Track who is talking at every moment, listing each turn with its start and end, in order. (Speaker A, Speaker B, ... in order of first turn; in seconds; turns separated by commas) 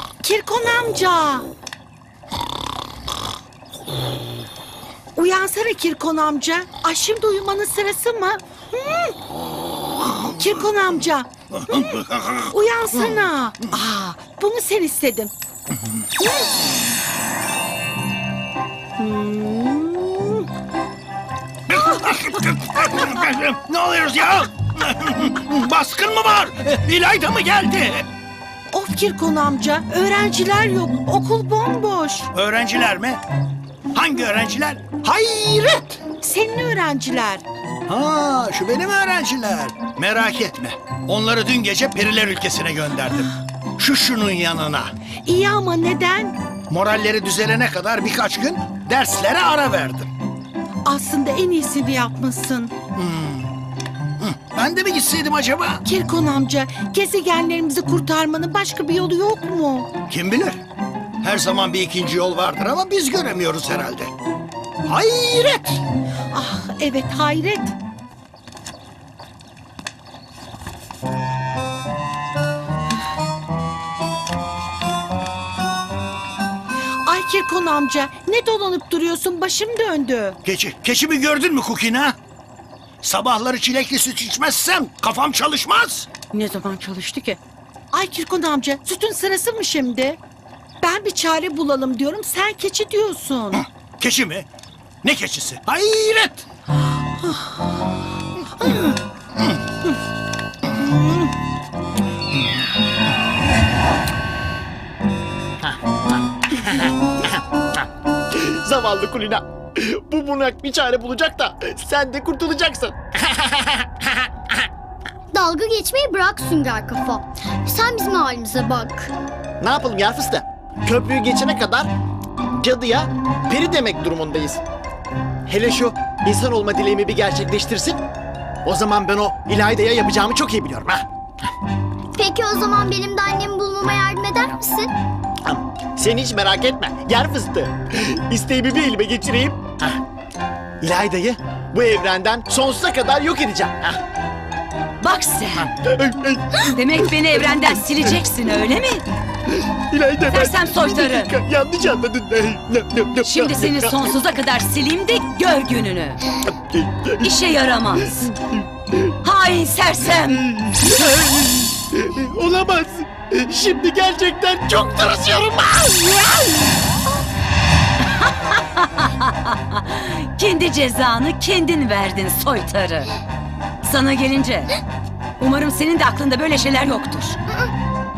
Speaker A: 0.2-1.5, Speaker A: 5.1-9.1, Speaker A: 10.2-15.3, Speaker B: 11.7-12.5, Speaker A: 19.0-20.5, Speaker B: 21.7-28.1, Speaker A: 28.7-32.3, Speaker B: 32.3-33.2, Speaker B: 33.9-36.0, Speaker A: 36.2-37.4, Speaker B: 37.9-44.9, Speaker A: 45.2-46.4, Speaker B: 46.7-50.1, Speaker A: 50.8-52.7, Speaker B: 52.9-53.5, Speaker B: 54.2-55.8, Speaker A: 55.8-59.9, Speaker B: 60.1-60.6, Speaker B: 61.2-64.1, Speaker B: 64.8-65.8, Speaker A: 66.3-67.7, Speaker A: 77.0-80.4, Speaker B: 80.4-82.2, Speaker B: 83.0-86.1, Speaker A: 86.3-87.4, Speaker A: 87.9-90.2, Speaker A: 90.8-93.6, Speaker B: 93.5-94.5, Speaker B: 95.0-96.5, Speaker A: 97.2-97.5, Speaker A: 98.6-98.9, Speaker C: 108.3-114.1, Speaker D: 115.3-119.1, Speaker C: 119.6-121.9, Speaker C: 122.5-124.6, Speaker C: 125.5-128.0, Speaker C: 128.6-131.0, Speaker D: 132.1-134.9, Speaker C: 135.4-139.9, Speaker C: 140.8-144.0, Speaker E: 145.0-145.7, Speaker C: 145.8-147.1, Speaker E: 146.6-149.0, Speaker C: 149.5-154.0, Speaker E: 150.3-151.3, Speaker E: 153.2-156.2, Speaker C: 156.4-157.3, Speaker E: 157.2-158.3, Speaker C: 158.2-158.9, Speaker E: 159.2-160.4, Speaker C: 160.2-166.7, Speaker E: 168.2-173.1, Speaker E: 173.8-174.8, Speaker E: 175.4-177.4